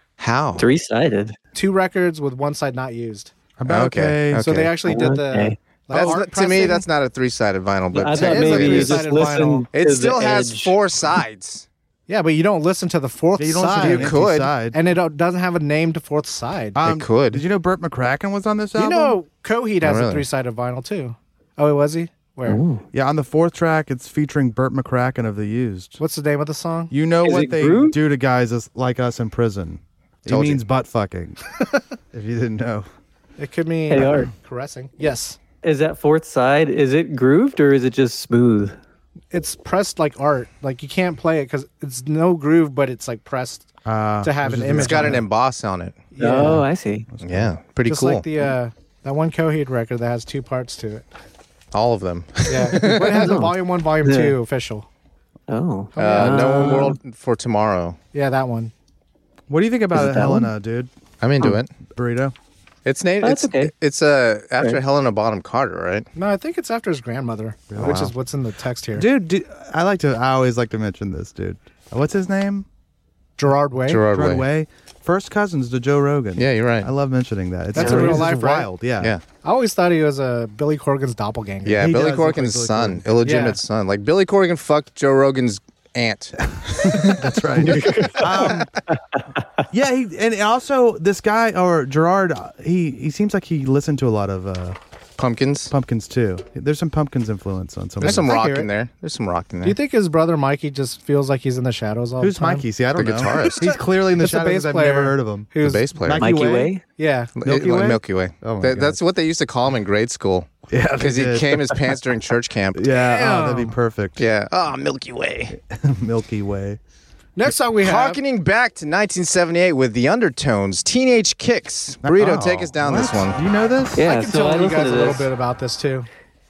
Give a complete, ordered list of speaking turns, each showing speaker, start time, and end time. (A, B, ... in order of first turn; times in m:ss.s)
0:00.2-0:00.7 A
0:00.6-0:01.4 B
0:01.5-0:03.3 C
0:03.6-0:04.5 D
0:03.7-0:04.7 A
0:04.4-0:06.9 C
0:04.9-0:05.6 B
0:05.9-0:09.0 A
0:07.9-0:10.8 B
0:08.1-0:09.7 C
0:09.8-0:11.7 A
0:12.1-0:14.2 C
0:13.4-0:14.8 D
0:13.8-0:14.5 A
0:14.7-0:16.8 C
0:16.8-0:19.2 D
0:16.8-0:17.4 A
0:18.8-0:22.6 C
0:19.8-0:20.3 A
0:22.5-0:22.8 B
0:22.9-0:26.0 D
0:26.0-0:26.9 C
0:26.9-0:31.4 D
0:27.2-0:28.0 B
0:30.3-0:30.6 A
0:32.1-0:32.9 D
0:33.4-0:35.4 C
0:33.9-0:34.3 B
0:35.6-0:38.8 B
0:39.3-0:43.7 C
0:43.8-0:45.3 D
0:44.2-0:45.2 C
0:44.8-0:46.0 A
0:46.1-0:46.6 C
0:46.2-0:47.1 B
0:47.1-0:47.5 D
0:47.2-0:48.5 A
0:47.9-0:51.0 C
0:51.7-0:53.3 A
0:52.5-0:54.9 C
0:53.0-0:54.4 B
0:55.5-0:57.0 B
0:56.0-0:56.9 C
0:56.0-0:58.0 A
0:58.1-0:58.7 C
0:59.5-1:00.9 D
0:59.9-1:00.5 B
1:01.2-1:01.7 A
1:01.9-1:02.4 D
1:02.9-1:06.1 A
1:03.2-1:03.7 B
1:06.2-1:09.1 C
1:07.7-1:08.0 D
1:07.8-1:08.1 A
1:08.9-1:12.7 D
1:13.4-1:14.0 C
1:13.9-1:14.4 A
1:14.1-1:19.1 D
1:16.4-1:16.9 A
1:17.7-1:18.7 C
1:17.8-1:18.3 B
1:19.4-1:21.8 C
1:21.6-1:28.6 A
1:21.8-1:23.2 D
1:23.2-1:23.6 C
1:26.8-1:28.7 D
1:27.7-1:28.3 B
1:29.7-1:34.8 D
1:35.2-1:35.7 A
1:35.7-1:38.4 D
1:38.0-1:38.7 C
1:38.0-1:39.8 A
1:39.6-1:42.7 C
1:42.2-1:46.8 D
1:43.0-1:43.7 A
1:43.3-1:45.9 C
1:45.6-1:46.3 A
1:46.2-1:46.8 B
1:47.0-1:48.0 C
1:47.4-1:52.9 A
1:47.4-1:49.0 D
1:50.7-1:51.8 D
1:52.7-1:54.3 D
1:52.9-1:53.8 C
1:54.2-1:55.5 A
1:55.5-1:56.8 D
1:57.4-1:58.2 C
1:57.8-2:03.4 A
2:02.0-2:04.0 D
2:04.0-2:05.3 B
2:04.0-2:06.1 C